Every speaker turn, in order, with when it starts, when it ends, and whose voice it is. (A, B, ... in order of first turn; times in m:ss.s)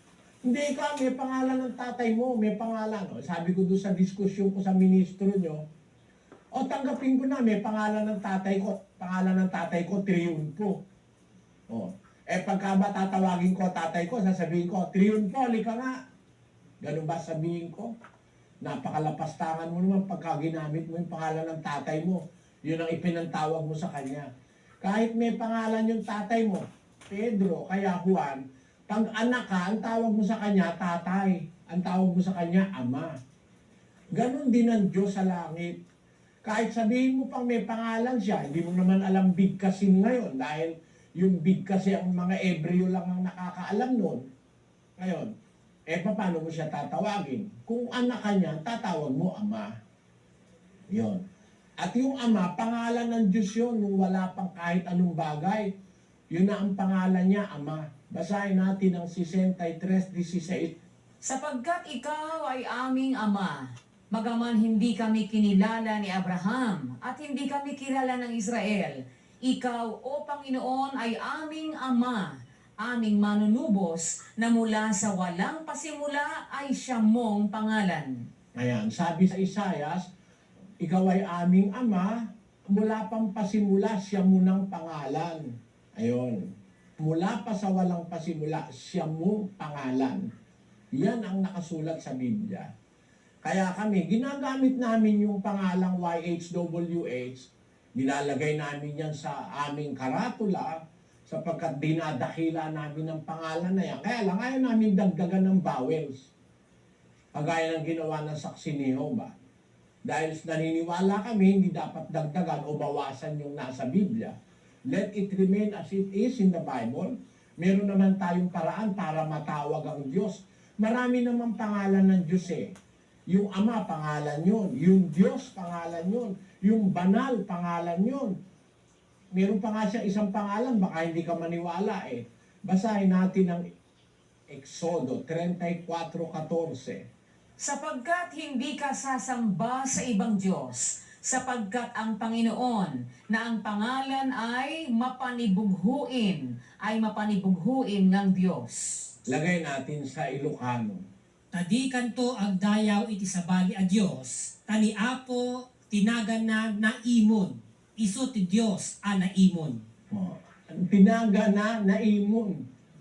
0:00.5-0:05.6 A
0:06.5-0:10.8 A
0:11.7-0:15.9 A
0:16.8-0:17.9 A
0:18.6-0:24.3 A
0:24.8-0:33.1 A
0:34.1-0:35.8 A
0:36.4-0:44.2 A
0:45.0-0:45.3 A
0:45.9-0:49.7 A
0:50.9-0:51.2 A
0:51.8-0:55.7 A
0:56.3-1:00.7 A
1:01.2-1:18.2 B
1:18.6-1:20.0 A
1:20.8-1:22.1 A
1:22.7-1:25.4 A
1:26.0-1:26.4 A
1:27.0-1:30.2 A
1:30.9-1:32.7 A
1:33.4-1:40.8 A
1:41.3-1:46.3 A
1:47.3-1:49.3 A
1:50.0-1:54.3 A
1:54.9-2:02.7 A
2:03.3-2:08.3 A
2:09.3-2:13.6 A
2:14.5-2:17.0 A
2:17.6-2:29.1 B
2:29.3-2:31.0 A
2:31.5-2:39.8 C
2:40.1-2:42.6 A